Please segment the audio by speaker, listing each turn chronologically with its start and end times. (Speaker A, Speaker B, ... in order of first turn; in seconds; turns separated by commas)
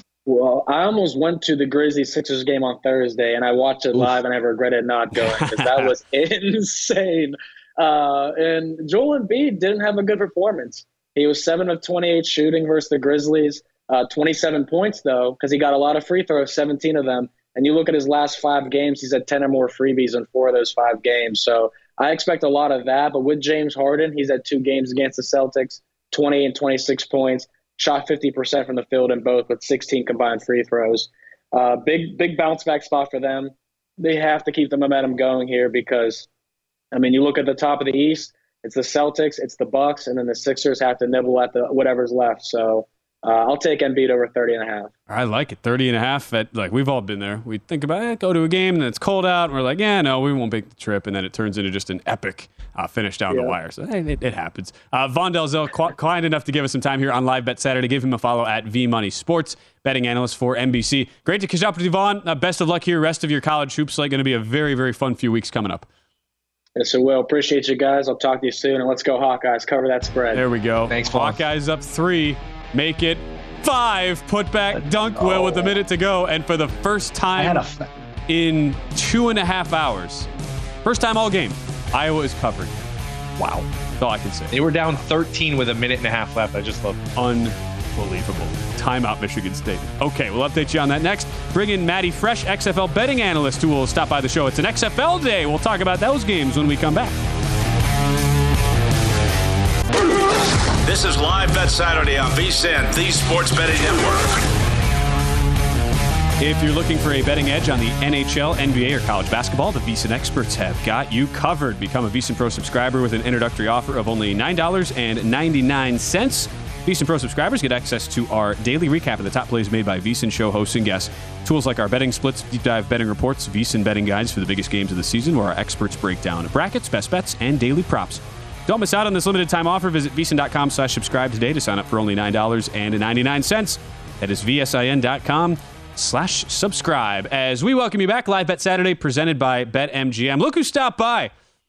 Speaker A: 0.3-36.3, Speaker B: 5.2-5.9, Speaker A: 36.9-44.9, Speaker B: 45.1-65.9, Speaker A: 66.8-70.4, Speaker B: 70.3-77.7, Speaker C: 70.9-71.4, Speaker C: 75.2-75.7, Speaker C: 77.4-77.9, Speaker B: 78.3-80.3, Speaker B: 80.8-82.8, Speaker B: 83.4-84.5, Speaker C: 84.5-87.0, Speaker B: 87.2-97.2, Speaker D: 100.0-104.5, Speaker B: 106.4-141.3